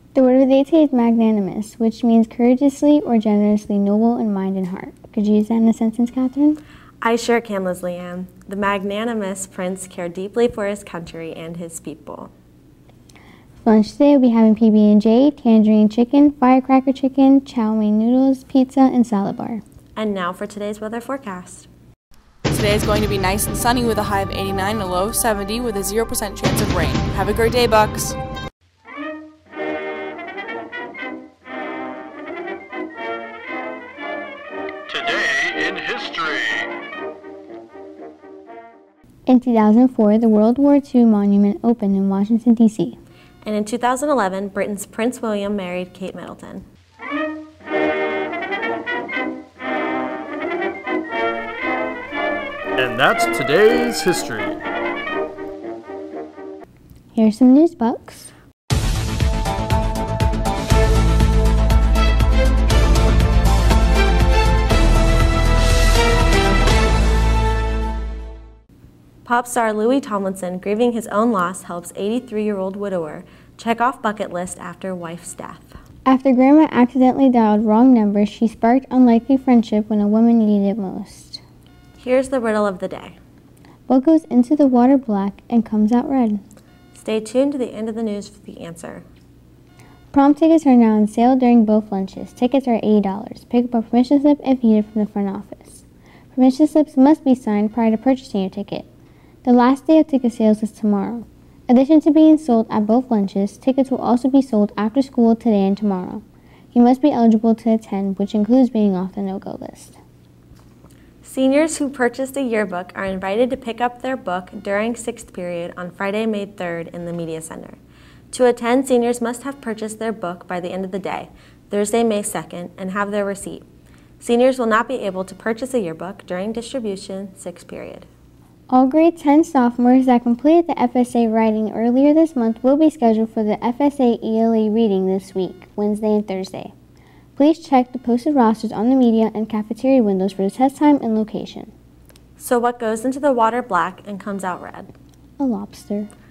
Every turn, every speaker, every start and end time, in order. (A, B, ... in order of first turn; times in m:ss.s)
0:00.1-0:06.6 A
0:07.0-0:12.3 B
0:13.6-0:19.6 A
0:20.0-0:21.7 B
0:22.5-0:28.2 C
0:34.9-0:36.7 D
0:39.3-0:43.0 A
0:43.4-0:46.6 B
0:52.8-0:54.6 D
0:57.1-0:58.3 A
1:09.2-1:15.7 B
1:16.1-1:21.4 A
1:22.0-1:23.2 B
1:23.9-1:26.4 A
1:26.9-1:29.0 B
1:30.1-1:38.9 A
1:39.4-1:50.0 A
1:51.2-1:57.8 B
1:58.3-2:03.6 B
2:04.2-2:08.1 B
2:08.7-2:16.7 A
2:17.4-2:21.7 A
2:22.4-2:24.9 B
2:25.4-2:26.1 A